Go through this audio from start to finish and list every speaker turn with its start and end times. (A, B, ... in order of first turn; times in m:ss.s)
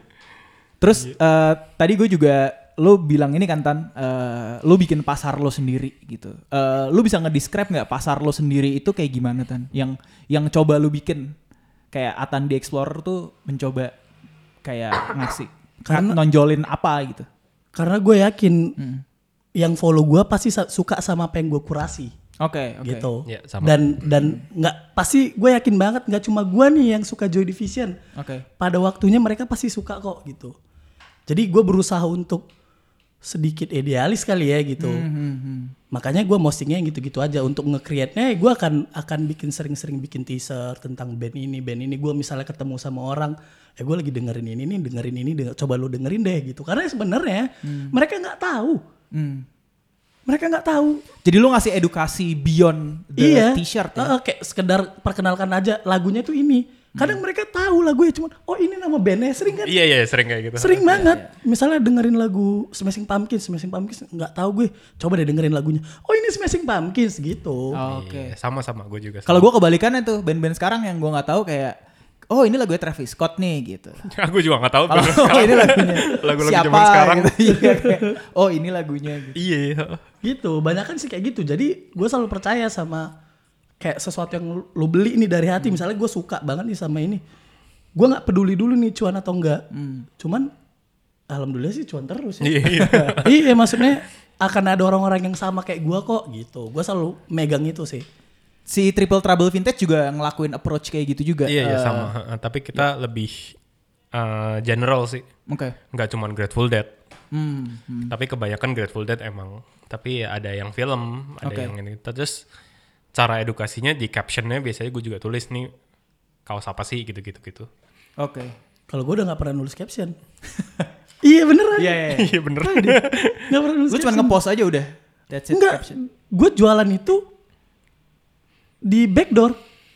0:00.8-0:11.3 A
0:11.9-0:13.9 A
0:14.6-0:17.3 A
0:15.9-0:16.2 B
0:17.8-0:18.8 B
0:18.8-0:19.0 A
0:19.6-0:22.1 B
0:22.4-0:23.1 A
0:22.8-0:28.0 B
0:23.3-0:23.9 C
0:28.2-0:28.5 A
0:28.6-0:30.6 B
0:31.3-0:32.5 B
0:33.2-0:35.1 B
0:34.8-0:35.7 A
0:35.9-0:48.8 B
0:47.6-0:47.9 A
0:49.1-0:49.5 A
0:50.3-0:51.0 B
0:51.2-0:54.1 A
0:53.2-0:59.8 B
0:57.0-0:57.2 A
0:59.6-1:01.0 C
1:00.6-1:07.8 B
1:00.9-1:01.3 A
1:07.8-1:08.4 A
1:07.8-1:09.5 C
1:09.3-1:11.8 A
1:12.3-1:14.1 A
1:14.1-1:17.5 C
1:14.9-1:19.4 A
1:17.5-1:18.1 B
1:19.4-1:20.0 C
1:20.2-1:23.1 B
1:23.8-1:27.2 B
1:28.0-1:29.6 B
1:29.7-1:30.1 A
1:30.2-1:30.5 B
1:31.3-1:32.7 B
1:32.4-1:33.4 C
1:32.7-1:33.2 A
1:33.2-1:38.1 B
1:38.7-1:42.1 A
1:41.5-1:43.6 C
1:44.1-1:45.3 C
1:45.5-1:45.8 A
1:45.9-1:46.9 C
1:47.3-1:48.1 A
1:48.1-1:52.4 C
1:51.4-1:51.7 A
1:53.1-1:55.7 C
1:56.5-1:57.7 C
1:58.2-1:58.5 A
1:58.9-2:00.2 B
2:01.2-2:04.4 B
2:01.8-2:02.4 A
2:02.1-2:03.4 C
2:03.9-2:06.0 A
2:05.5-2:07.3 B
2:08.8-2:09.6 B